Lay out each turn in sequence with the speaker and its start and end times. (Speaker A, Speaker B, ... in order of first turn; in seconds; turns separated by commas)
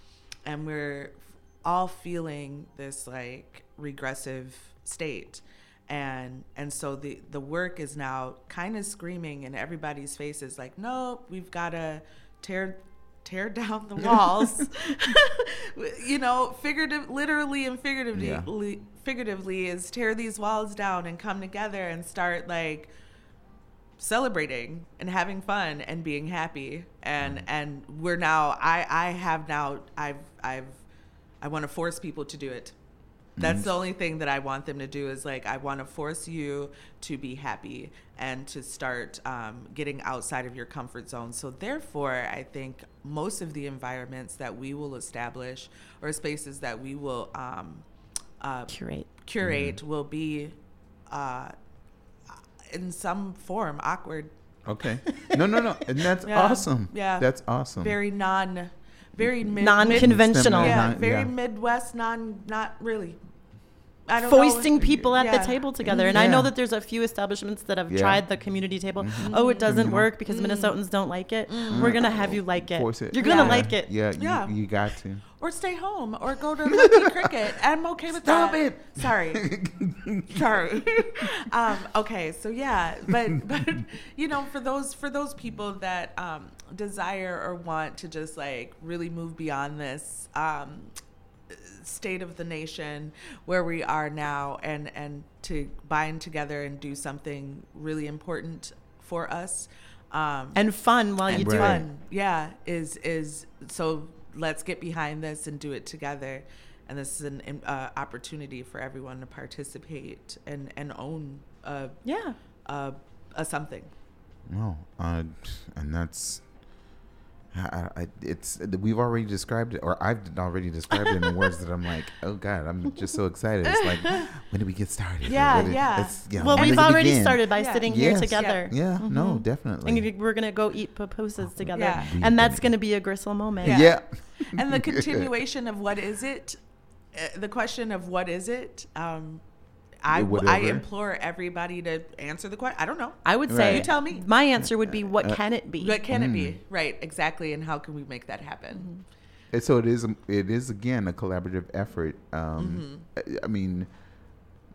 Speaker A: 0.4-22.9, Speaker B: 14.0-14.6, Speaker B: 18.1-18.5, Speaker A: 24.0-30.8, Speaker A: 31.4-32.8, Speaker B: 33.4-33.7, Speaker A: 33.4-47.9, Speaker A: 48.4-50.5, Speaker C: 48.7-49.1, Speaker B: 49.4-49.8, Speaker A: 51.1-51.5, Speaker A: 52.7-54.3, Speaker B: 54.6-58.0, Speaker A: 56.2-63.2, Speaker B: 59.2-61.3, Speaker C: 59.6-60.9, Speaker A: 64.1-66.3, Speaker C: 64.2-73.9, Speaker B: 64.8-65.1, Speaker B: 65.9-66.5, Speaker B: 67.9-68.2, Speaker B: 69.0-70.1, Speaker A: 69.2-70.8, Speaker A: 71.5-72.0, Speaker B: 71.7-75.2, Speaker A: 73.2-74.8, Speaker A: 75.4-79.5, Speaker B: 76.7-77.3, Speaker B: 78.1-81.2, Speaker A: 80.3-90.9, Speaker A: 91.5-100.6, Speaker C: 100.5-101.8, Speaker A: 101.2-113.9, Speaker B: 101.3-101.8, Speaker C: 112.0-112.4, Speaker B: 114.5-116.5, Speaker B: 117.5-130.1, Speaker A: 123.8-124.3, Speaker A: 125.2-128.7, Speaker C: 126.3-133.8, Speaker A: 131.7-132.1, Speaker B: 131.9-132.7, Speaker A: 133.6-136.6, Speaker B: 133.6-135.3, Speaker A: 137.1-139.4, Speaker A: 140.0-144.3, Speaker B: 140.1-140.8, Speaker C: 143.2-146.0, Speaker B: 143.5-143.9, Speaker B: 144.6-145.4, Speaker A: 145.8-148.9, Speaker B: 146.1-146.6, Speaker C: 148.7-149.0, Speaker B: 149.5-153.9, Speaker A: 152.6-153.1